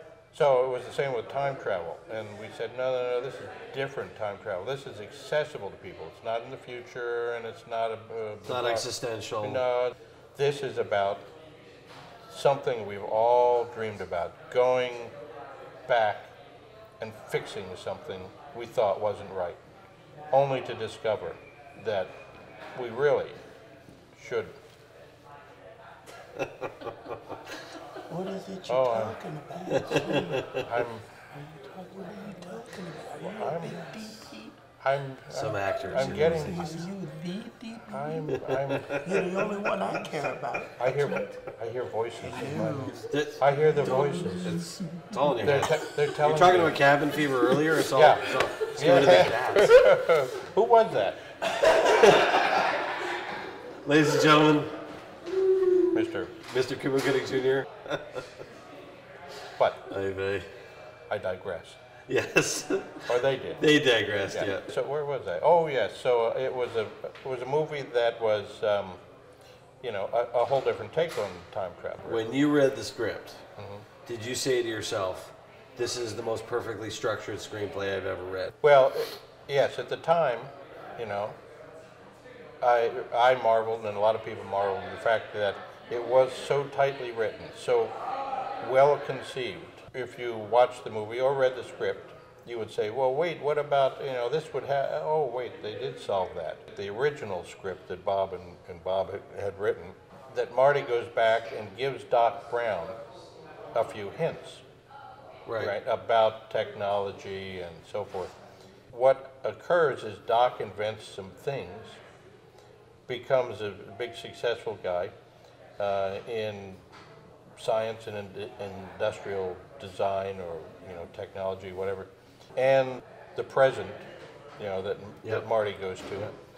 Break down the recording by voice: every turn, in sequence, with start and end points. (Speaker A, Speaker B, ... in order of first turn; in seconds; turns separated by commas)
Speaker A: 0.3-8.9, Speaker B: 8.5-9.6, Speaker A: 9.4-11.3, Speaker A: 12.3-15.2, Speaker A: 15.9-16.4, Speaker A: 17.0-19.6, Speaker A: 20.3-22.1, Speaker A: 22.8-23.4, Speaker A: 24.1-24.6, Speaker B: 26.3-27.6, Speaker C: 28.1-30.5, Speaker A: 28.7-29.2, Speaker B: 29.7-30.7, Speaker A: 30.1-31.1, Speaker C: 31.3-34.5, Speaker A: 33.4-34.0, Speaker A: 34.8-36.8, Speaker B: 35.3-36.7, Speaker C: 36.0-38.4, Speaker A: 37.9-39.2, Speaker B: 38.3-39.3, Speaker C: 39.0-41.4, Speaker A: 40.8-44.6, Speaker C: 42.2-45.2, Speaker B: 43.0-49.9, Speaker A: 45.4-46.8, Speaker A: 47.9-51.2, Speaker B: 51.5-52.7, Speaker B: 53.8-54.8, Speaker B: 55.4-55.8, Speaker A: 55.9-56.4, Speaker B: 56.4-58.5, Speaker A: 59.6-59.9, Speaker B: 59.9-60.5, Speaker A: 61.1-61.8, Speaker B: 62.1-64.7, Speaker A: 63.1-63.6, Speaker A: 64.3-69.0, Speaker A: 69.8-72.3, Speaker B: 72.0-73.4, Speaker A: 73.6-73.9, Speaker B: 74.1-78.5, Speaker A: 78.6-81.4, Speaker A: 82.6-88.0, Speaker A: 88.6-103.0, Speaker A: 103.7-104.6, Speaker B: 105.5-105.8, Speaker A: 105.6-108.4, Speaker A: 108.9-112.0, Speaker A: 113.1-115.1, Speaker A: 115.8-116.8, Speaker A: 117.6-126.3